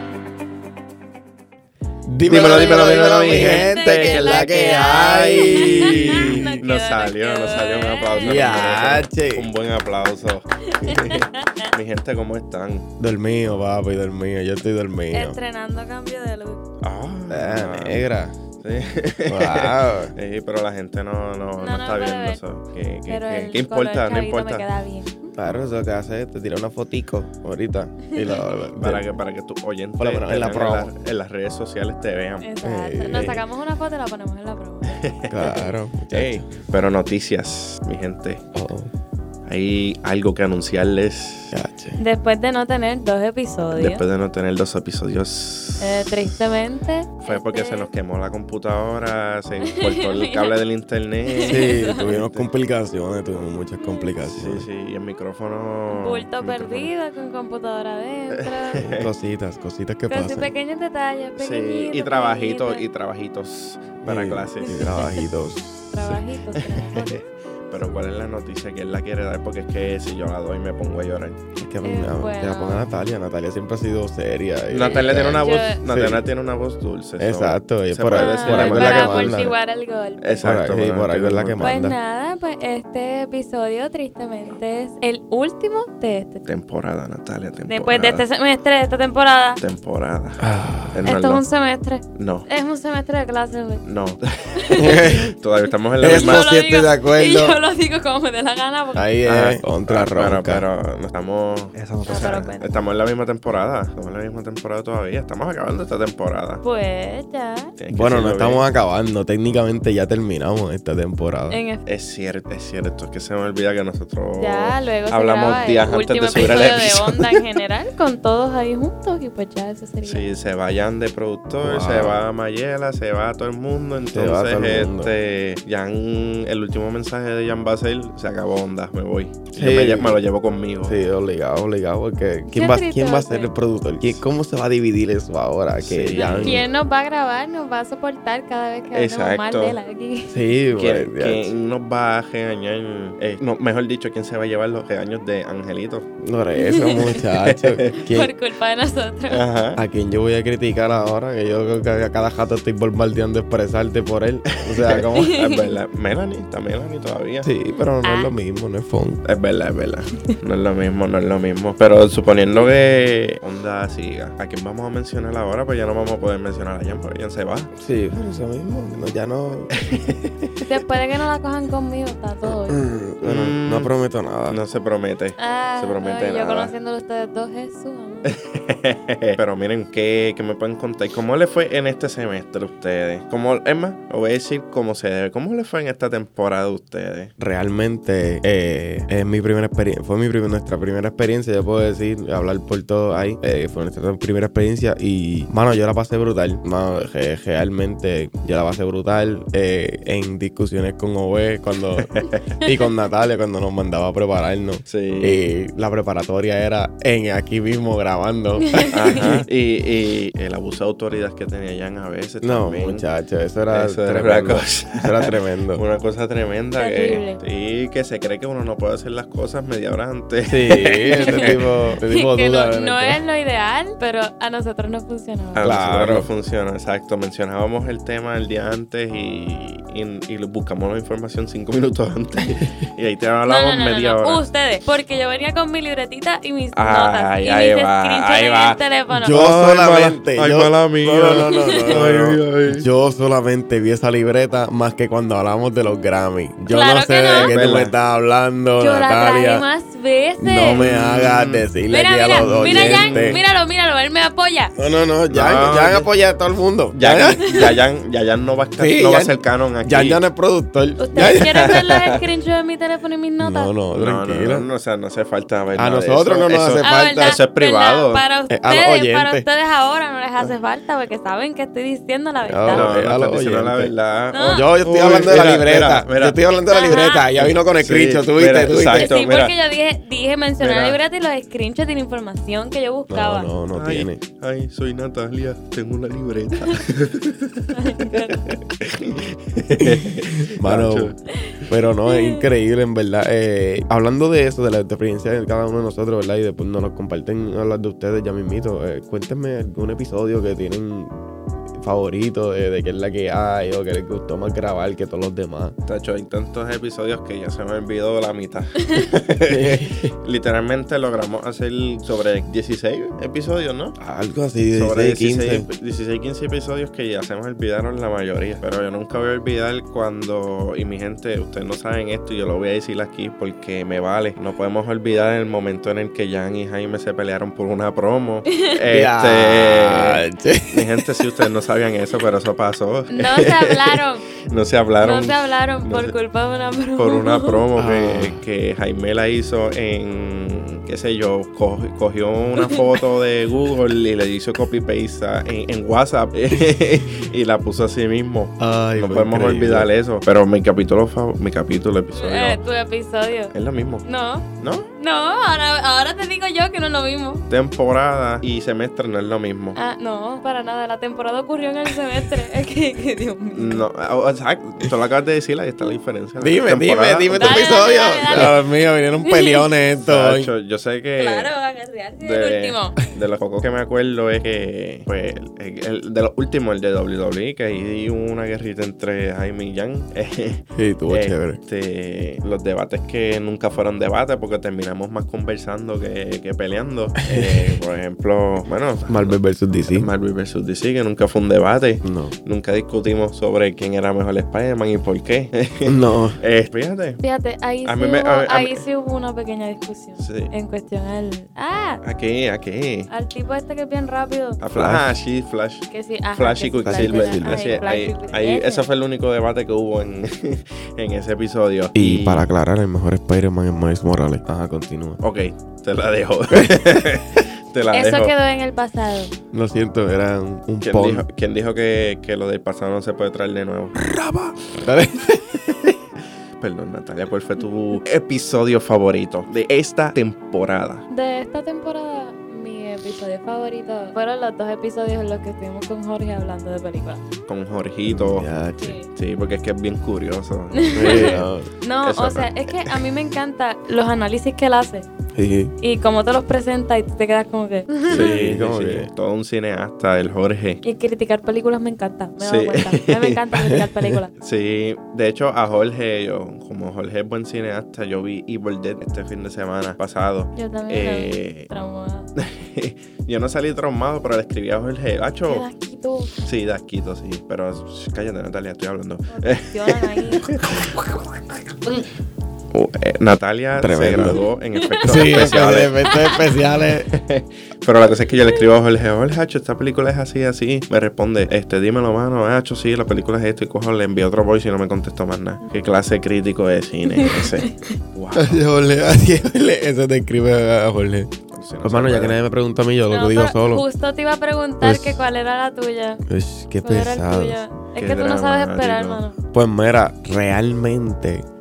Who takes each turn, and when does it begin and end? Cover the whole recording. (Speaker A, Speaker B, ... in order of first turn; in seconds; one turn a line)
Speaker A: 2.0-6.6
Speaker B: 2.2-12.9
Speaker C: 2.5-9.0
Speaker A: 8.2-9.5
Speaker C: 10.7-11.7
Speaker A: 13.0-15.4
Speaker C: 15.1-16.6
Speaker B: 16.8-18.1
Speaker A: 17.3-18.4
Speaker B: 18.6-24.6
Speaker A: 19.3-20.1
Speaker C: 21.6-22.4
Speaker C: 23.1-25.4
Speaker A: 25.4-29.1
Speaker B: 28.8-32.5
Speaker A: 30.0-30.9
Speaker C: 32.4-35.0
Speaker A: 32.6-33.4
Speaker B: 34.9-38.4
Speaker A: 35.3-36.4
Speaker A: 38.5-38.9
Speaker B: 39.5-41.5
Speaker A: 41.5-42.0
Speaker C: 42.0-44.0
Speaker B: 43.7-46.0
Speaker C: 45.8-47.9
Speaker B: 47.2-52.5
Speaker C: 49.7-50.5
Speaker C: 51.3-52.1
Speaker A: 51.5-54.7
Speaker C: 53.8-54.1
Speaker B: 54.3-56.9
Speaker C: 55.9-58.8
Speaker B: 58.7-59.0
Speaker A: 58.8-60.5
Speaker C: 60.1-62.8
Speaker B: 61.4-65.1
Speaker A: 64.0-66.2
Speaker C: 64.6-65.3
Speaker C: 65.9-67.2
Speaker B: 66.5-71.4
Speaker A: 71.6-76.2
Speaker C: 71.8-72.9
Speaker B: 74.7-79.5
Speaker C: 75.0-75.8
Speaker A: 77.2-79.5
Speaker C: 78.1-80.4
Speaker B: 80.2-81.7
Speaker A: 80.4-82.0
Speaker C: 81.6-86.4
Speaker B: 86.5-88.2
Speaker C: 87.7-89.6
Speaker B: 89.6-91.4
Speaker A: 90.4-91.1
Speaker C: 91.0-93.8
Speaker B: 92.1-92.5
Speaker B: 93.8-96.5
Speaker C: 94.6-95.0
Speaker A: 94.8-95.3
Speaker A: 96.0-97.6
Speaker C: 96.0-99.1
Speaker A: 99.0-100.6
Speaker B: 99.3-106.6
Speaker C: 102.1-102.7
Speaker C: 106.6-107.7
Speaker B: 107.8-108.7
Speaker A: 107.9-111.6
Speaker C: 111.5-111.8
Speaker B: 111.9-117.4
Speaker C: 114.4-120.3
Speaker B: 120.0-131.0
Speaker A: 121.6-122.2
Speaker A: 124.1-125.1
Speaker A: 129.5-130.2
Speaker A: 130.8-136.6
Speaker C: 132.5-133.5
Speaker B: 135.8-136.6
Speaker C: 136.2-140.3
Speaker B: 138.9-139.8
Speaker A: 140.3-141.5
Speaker B: 140.7-146.1
Speaker A: 146.2-148.3
Speaker C: 146.6-147.0
Speaker B: 147.2-147.7
Speaker C: 148.0-149.4
Speaker B: 149.3-149.8
Speaker A: 149.8-155.3
Speaker B: 154.8-157.5
Speaker C: 155.2-155.6
Speaker A: 157.4-159.2
Speaker C: 158.0-158.3
Speaker B: 159.2-167.7
Speaker A: 167.8-169.8
Speaker C: 170.6-172.8
Speaker A: 172.7-174.6
Speaker B: 173.2-173.9
Speaker B: 174.5-176.7
Speaker C: 175.4-178.3
Speaker B: 178.3-187.3
Speaker A: 187.4-209.4
Speaker B: 204.9-205.4
Speaker B: 208.9-213.1
Speaker A: 212.4-215.8
Speaker B: 213.7-221.6
Speaker C: 216.8-217.4
Speaker A: 220.5-223.2
Speaker C: 221.1-225.8
Speaker B: 225.5-234.4
Speaker A: 225.6-226.3
Speaker C: 233.4-239.4
Speaker B: 236.7-242.8
Speaker A: 239.1-249.6
Speaker C: 241.5-242.0
Speaker C: 246.6-247.6
Speaker B: 247.3-247.9
Speaker C: 248.8-250.8
Speaker A: 250.4-253.4
Speaker B: 250.5-251.7
Speaker C: 251.9-254.7
Speaker B: 252.4-253.4
Speaker A: 254.8-257.4
Speaker B: 255.3-256.1
Speaker B: 256.9-260.2
Speaker A: 258.8-261.7
Speaker C: 261.0-263.7
Speaker B: 261.3-262.2
Speaker A: 263.4-264.7
Speaker B: 263.9-268.2
Speaker A: 265.8-267.4
Speaker C: 266.8-272.9
Speaker A: 268.5-269.4
Speaker A: 272.4-273.9
Speaker B: 272.7-279.5
Speaker C: 274.3-274.7
Speaker A: 274.5-279.1
Speaker C: 276.6-277.3
Speaker C: 278.9-283.5
Speaker B: 280.6-281.0
Speaker A: 283.1-284.2
Speaker B: 283.7-291.2
Speaker C: 287.7-288.4
Speaker A: 290.6-301.2
Speaker C: 291.3-292.4
Speaker A: 301.8-305.8
Speaker B: 305.9-314.0
Speaker A: 309.5-310.1
Speaker A: 314.0-315.6
Speaker B: 314.7-336.1
Speaker A: 328.9-331.2
Speaker C: 333.1-334.2
Speaker C: 335.0-337.6
Speaker B: 336.9-352.6
Speaker A: 337.8-338.4
Speaker A: 348.6-349.9
Speaker C: 352.1-353.5
Speaker B: 353.5-354.1
Speaker C: 354.1-357.4
Speaker B: 354.6-354.9
Speaker B: 357.5-359.8
Speaker C: 359.8-363.9
Speaker B: 363.5-368.5
Speaker A: 366.4-370.5
Speaker C: 367.3-368.6
Speaker C: 369.2-369.7
Speaker B: 370.1-371.5
Speaker C: 371.2-372.9
Speaker B: 372.2-397.2
Speaker A: 380.8-381.6
Speaker A: 387.2-387.8
Speaker A: 389.1-390.1
Speaker A: 392.0-392.3
Speaker A: 395.8-396.4
Speaker C: 397.2-402.0
Speaker B: 397.8-398.8
Speaker B: 400.2-400.5
Speaker B: 402.0-403.1
Speaker C: 403.1-404.6
Speaker B: 404.6-412.5
Speaker A: 404.7-405.1
Speaker C: 405.9-408.9
Speaker A: 406.8-407.6
Speaker A: 411.9-415.2
Speaker B: 415.2-418.3
Speaker C: 417.9-419.3
Speaker A: 419.5-421.2
Speaker B: 420.8-424.1
Speaker A: 424.0-425.9
Speaker B: 426.6-431.0
Speaker C: 431.1-437.2
Speaker B: 437.5-438.5
Speaker A: 438.1-439.0
Speaker C: 438.8-439.1
Speaker B: 439.1-441.5
Speaker C: 440.8-445.1
Speaker A: 440.9-441.7
Speaker B: 442.0-443.0
Speaker A: 445.3-445.7
Speaker C: 445.8-448.4
Speaker A: 448.1-449.1
Speaker B: 448.1-450.8
Speaker C: 450.8-454.3
Speaker B: 452.4-453.4
Speaker B: 454.4-461.7
Speaker C: 460.5-462.3
Speaker B: 462.4-465.7
Speaker C: 465.5-466.3
Speaker B: 466.4-471.4
Speaker C: 469.3-470.5
Speaker B: 472.7-488.6
Speaker A: 473.8-474.4
Speaker A: 475.0-477.1
Speaker C: 487.2-487.7
Speaker A: 488.3-491.3
Speaker B: 491.5-492.4
Speaker A: 491.8-493.8
Speaker C: 493.1-496.2
Speaker A: 494.8-495.2
Speaker A: 496.3-497.6
Speaker C: 496.8-499.4
Speaker B: 498.0-499.2
Speaker A: 499.5-501.4